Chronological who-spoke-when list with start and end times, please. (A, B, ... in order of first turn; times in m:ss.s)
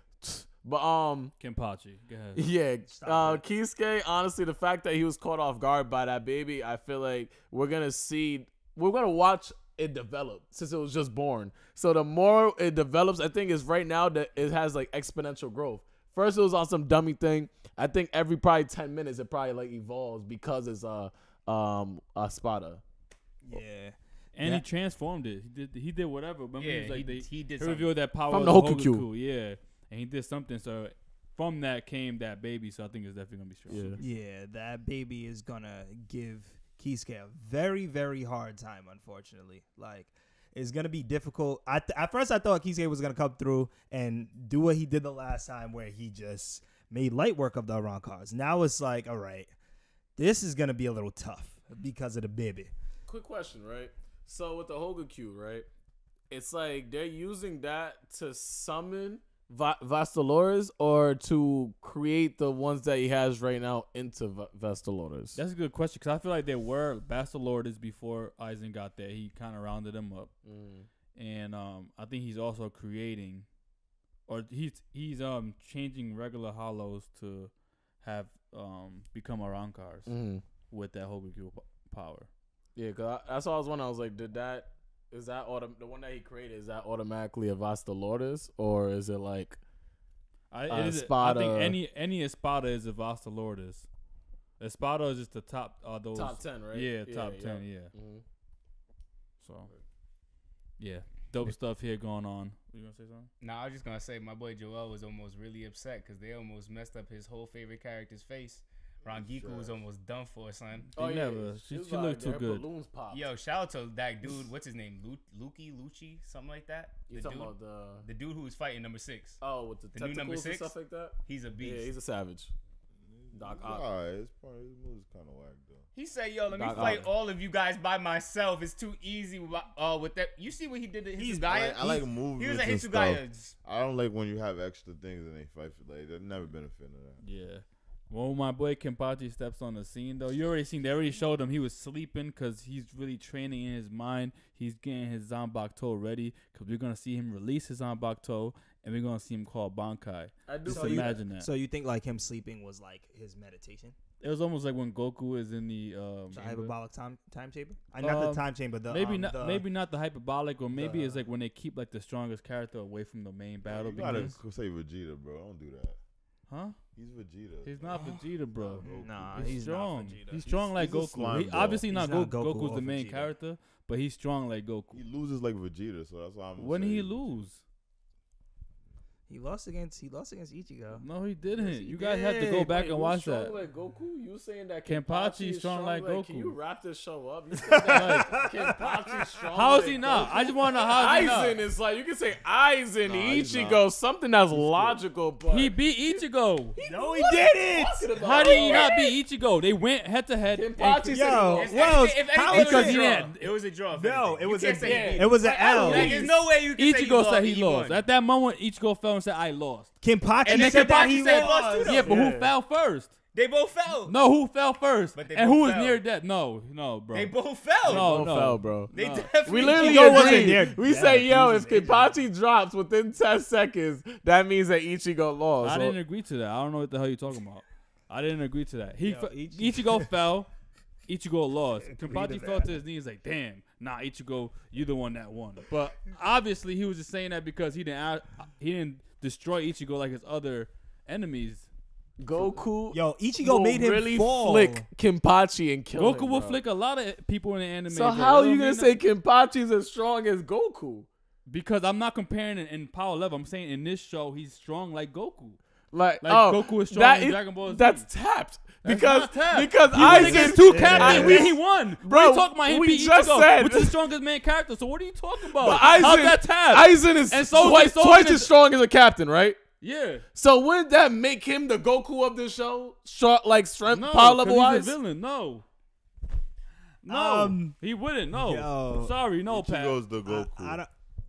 0:00.2-0:01.3 A
0:01.4-0:02.5 B
0:02.4-0:22.8 A
0:02.9-0:03.4 C
0:23.4-0:24.6 C
0:24.3-0:34.0 B
0:26.6-0:27.9 D
0:28.3-0:29.1 A
0:33.7-0:34.0 A
0:34.0-0:49.5 C
0:50.2-0:52.7 C
0:53.1-0:55.7 A
0:56.3-1:05.4 A
1:05.4-1:10.4 B
1:10.4-1:10.9 A
1:11.2-1:13.5 B
1:14.3-1:22.3 B
1:20.1-1:20.4 A
1:22.8-1:29.6 A
1:30.5-1:33.9 B
1:30.7-1:31.8 A
1:34.6-1:37.9 B
1:36.1-1:38.2 A
1:39.4-1:39.7 B
1:40.8-1:43.3 B
1:43.4-1:50.9 D
1:49.1-1:49.8 E
1:51.0-1:52.7 B
1:51.0-1:53.3 A
1:53.1-1:59.4 D
1:57.1-1:58.1 A
1:59.4-2:02.5 A
1:59.9-2:01.9 D
2:03.0-2:05.9 E
2:03.3-2:03.8 A
2:05.9-2:13.6 D
2:06.5-2:07.2 A
2:11.2-2:11.5 C
2:11.5-2:17.2 E
2:17.2-2:31.5 B
2:30.5-2:31.2 A
2:30.7-2:34.0 C
2:34.2-2:36.7 B
2:36.3-2:39.7 C
2:38.0-2:44.4 B
2:40.7-2:41.2 C
2:43.6-2:46.0 E
2:46.5-2:46.8 B
2:47.0-2:49.6 E
2:47.6-2:55.0 B
2:48.8-2:50.4 C
2:50.3-2:51.9 E
2:51.9-2:53.3 C
2:54.9-2:57.4 E
2:56.6-2:57.6 B
2:59.3-3:01.1 C
3:01.0-3:03.6 B
3:01.6-3:16.2 A
3:04.9-3:06.6 B
3:07.8-3:09.2 C
3:07.8-3:08.5 B
3:09.5-3:11.6 B
3:13.1-3:13.8 B
3:14.5-3:15.0 B
3:15.5-3:16.8 B
3:16.8-3:19.1 A
3:16.8-3:18.5 C
3:18.2-3:21.4 B
3:20.5-3:22.1 A
3:21.1-3:23.3 C
3:21.5-3:28.0 D
3:22.4-3:23.5 B
3:23.9-3:26.3 C
3:24.8-3:26.3 A
3:25.8-3:31.1 B
3:30.0-3:32.1 C
3:30.4-3:32.2 D
3:31.0-3:32.5 A
3:31.8-3:33.2 B
3:33.3-3:34.2 D
3:34.1-3:40.7 B
3:35.2-3:36.0 D
3:37.1-3:38.3 D
3:37.8-3:46.0 A
3:38.9-3:40.3 D
3:39.7-3:42.1 C
3:45.6-3:50.5 B
3:49.0-3:50.1 C
3:51.1-4:01.7 B
3:51.9-3:52.7 C
4:02.2-4:06.6 A
4:02.9-4:04.9 C
4:06.0-4:09.0 B
4:07.9-4:11.1 A
4:11.5-4:15.6 B
4:15.9-4:24.0 A
4:16.2-4:18.1 B
4:18.8-4:19.8 D
4:18.9-4:28.5 B
4:19.9-4:21.5 C
4:25.5-4:29.6 A
4:29.8-4:30.3 B
4:30.4-4:34.9 A
4:33.9-4:35.7 B
4:37.0-4:40.0 B
4:37.1-4:37.8 C
4:38.3-4:39.1 C
4:39.5-4:40.8 E
4:40.3-4:40.9 C